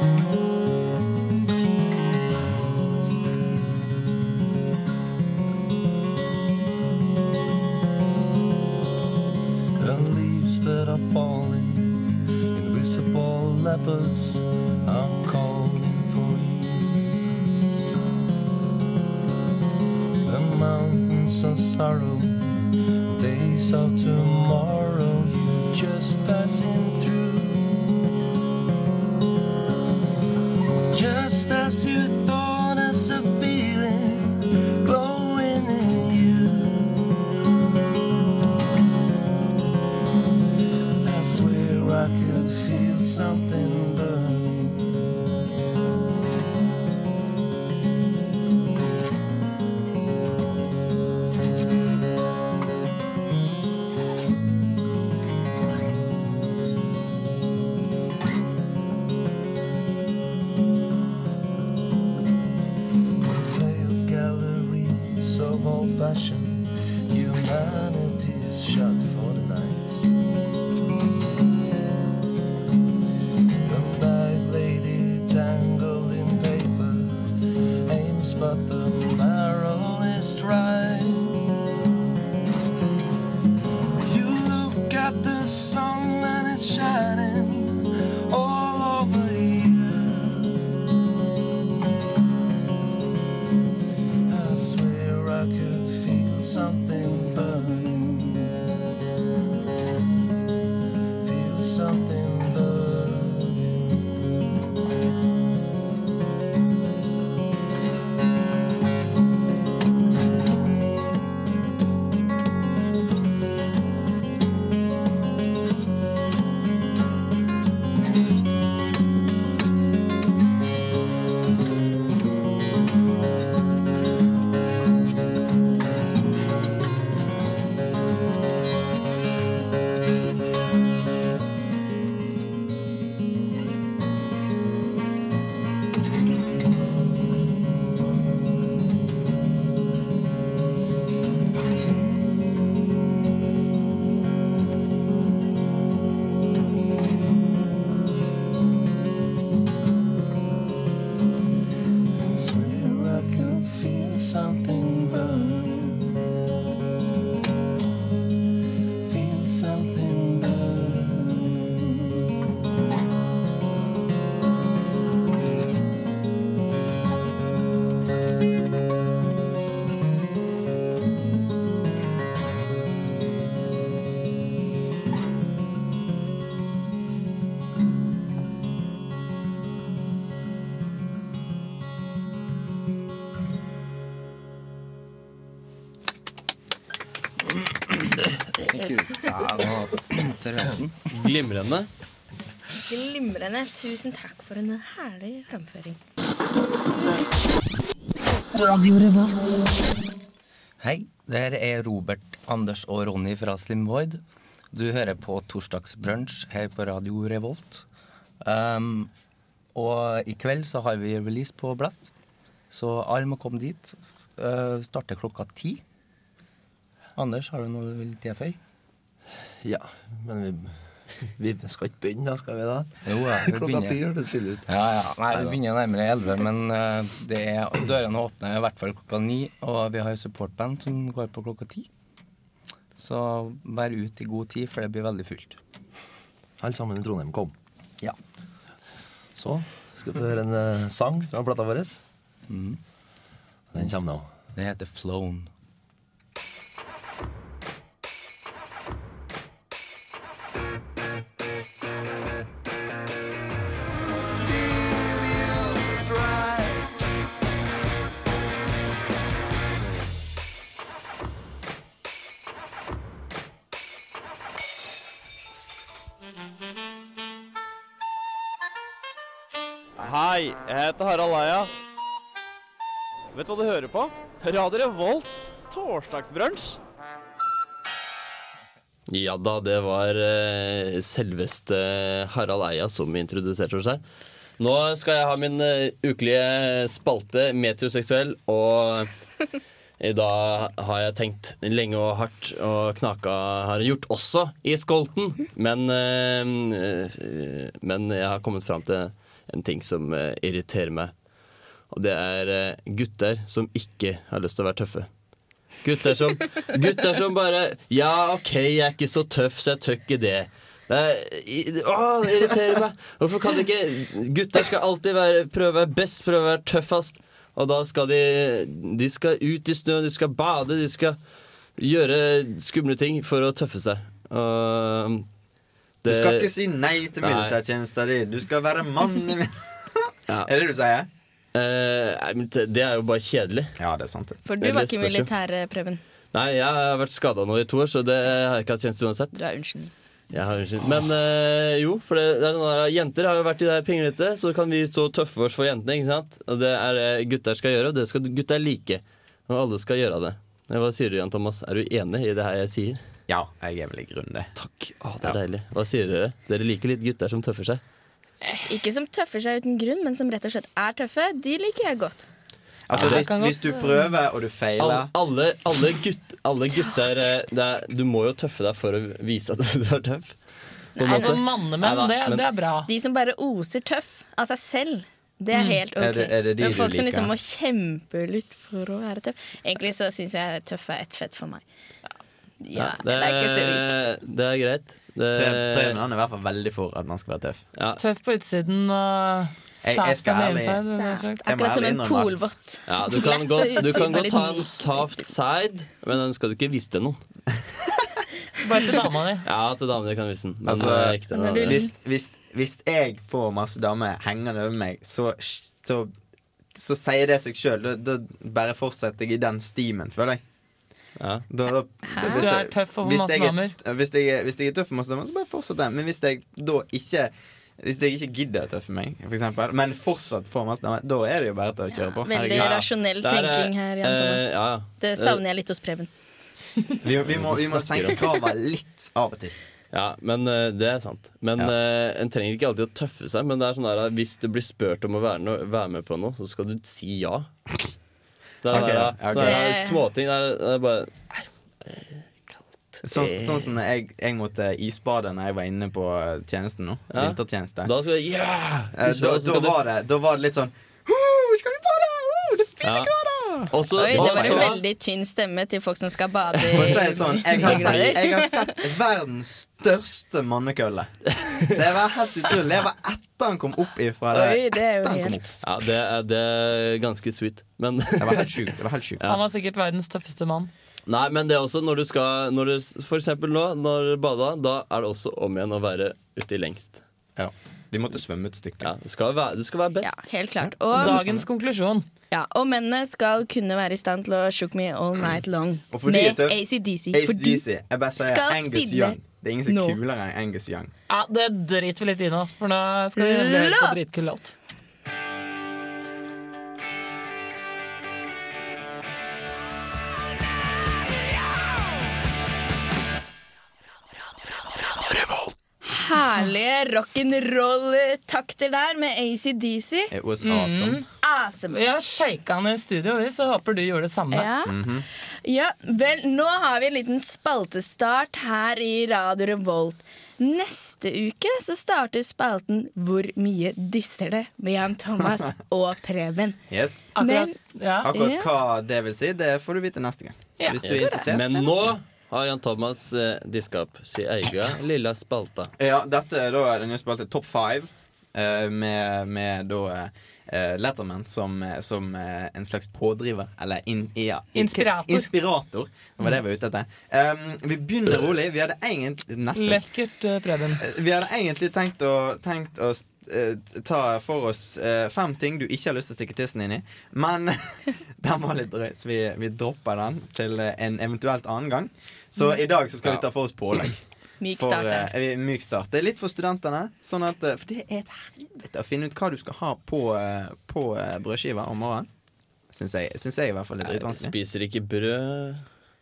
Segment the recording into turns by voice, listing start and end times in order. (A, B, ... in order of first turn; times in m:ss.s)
0:09.8-0:17.1 A
0:20.2-0:27.9 A
0:30.9-0:37.1 A
0:41.0-0:45.0 A
1:03.2-1:10.0 A
1:13.6-1:21.4 A
1:24.0-1:30.6 A
1:34.3-1:38.6 A
1:41.2-1:43.9 A
2:32.1-2:36.1 A
2:39.0-2:42.1 A
3:08.6-3:11.0 B
3:11.1-3:11.9 C
3:12.8-3:16.0 D
3:20.8-3:24.2 B
3:24.7-3:27.8 B
3:28.4-3:29.1 B
3:29.7-3:32.1 B
3:32.7-3:35.8 B
3:37.2-3:38.6 B
3:39.6-3:40.8 A
3:41.4-3:44.7 A
3:43.0-3:44.1 B
3:44.6-3:51.9 B
3:53.0-3:55.6 B
3:56.6-3:57.5 A
3:59.4-4:02.0 A
4:02.5-4:02.8 B
4:03.7-4:04.3 A
4:04.5-4:05.5 B
4:30.0-4:31.7 E
4:33.3-4:36.8 E
4:39.1-4:44.0 C
4:44.6-4:49.1 C
4:50.0-5:01.1 C
5:01.9-5:05.1 C
5:05.8-5:21.2 C
5:21.8-5:25.3 C
5:26.0-5:26.6 C
5:26.0-5:31.1 F
5:27.2-5:27.6 C
5:31.5-5:33.8 C
5:33.8-5:34.4 F
5:34.4-5:36.0 D
5:34.6-5:35.3 C
5:36.3-5:39.4 C
5:39.3-5:39.9 D
5:40.3-5:53.0 C
5:53.3-5:54.5 F
5:54.6-5:57.8 C
5:58.4-5:58.7 G
5:58.7-6:02.2 D
6:02.9-6:05.1 F
6:02.9-6:03.3 C
6:02.9-6:04.1 G
6:04.8-6:10.4 C
6:11.0-6:11.4 D
6:11.0-6:12.4 C
6:11.0-6:12.9 G
6:12.9-6:21.6 D
6:15.5-6:15.8 G
6:16.0-6:17.3 F
6:22.6-6:24.0 D
6:22.8-6:26.0 C
6:25.3-6:27.6 F
6:27.7-6:28.0 C
6:28.0-6:31.4 G
6:29.8-6:30.8 F
6:30.9-6:35.2 D
6:31.4-6:32.5 F
6:32.9-6:37.2 C
6:38.6-6:39.4 G
6:39.4-6:41.8 C
6:40.6-6:46.1 F
6:41.3-6:41.9 D
6:46.7-6:50.4 F
6:51.2-6:51.4 C
6:51.5-7:02.8 F
6:52.0-6:52.5 D
6:52.2-6:53.7 G
7:01.9-7:06.1 D
7:02.5-7:05.4 C
7:07.0-7:09.5 F
7:07.2-7:08.3 C
7:09.9-7:17.5 C
7:18.6-7:23.7 C
7:18.7-7:19.6 F
7:19.3-7:20.0 D
7:23.0-7:27.9 F
7:27.1-7:29.8 C
7:28.9-7:34.8 F
7:32.8-7:33.1 C
7:33.7-7:34.8 C
7:33.9-7:38.8 D
7:36.6-7:37.0 C
7:36.7-7:45.6 F
7:37.5-7:38.1 C
7:41.4-7:41.6 C
7:44.3-7:45.4 D
7:45.6-7:49.4 C
7:48.2-7:49.2 F
7:49.2-7:50.7 G
7:51.0-7:57.0 C
7:57.4-7:58.9 F
7:58.8-8:00.2 C
8:00.0-8:01.3 D
8:00.9-8:02.0 G
8:01.0-8:01.4 F
8:02.3-8:07.6 D
8:05.9-8:06.6 F
8:07.1-8:10.9 F
8:08.2-8:10.0 D
8:11.1-8:14.5 G
8:13.1-8:14.2 D
8:25.8-8:30.1 D
8:30.1-8:31.0 F
8:30.4-8:31.0 G
8:31.2-8:31.8 D
8:31.7-8:34.5 G
8:34.3-8:34.7 D
8:34.6-8:35.0 F
8:35.4-8:46.6 D
8:46.7-8:47.1 F
8:47.1-8:48.1 G
8:47.2-8:47.5 D
8:48.0-8:51.7 F
8:48.1-8:48.5 D
8:50.6-8:51.3 D
8:50.8-8:55.7 C
8:55.8-9:09.8 F
9:04.6-9:05.3 G
9:09.5-9:10.8 G
9:10.8-9:24.0 F
9:24.4-9:25.1 D
9:24.5-9:32.1 F
9:32.7-9:34.3 F
9:33.8-9:35.6 C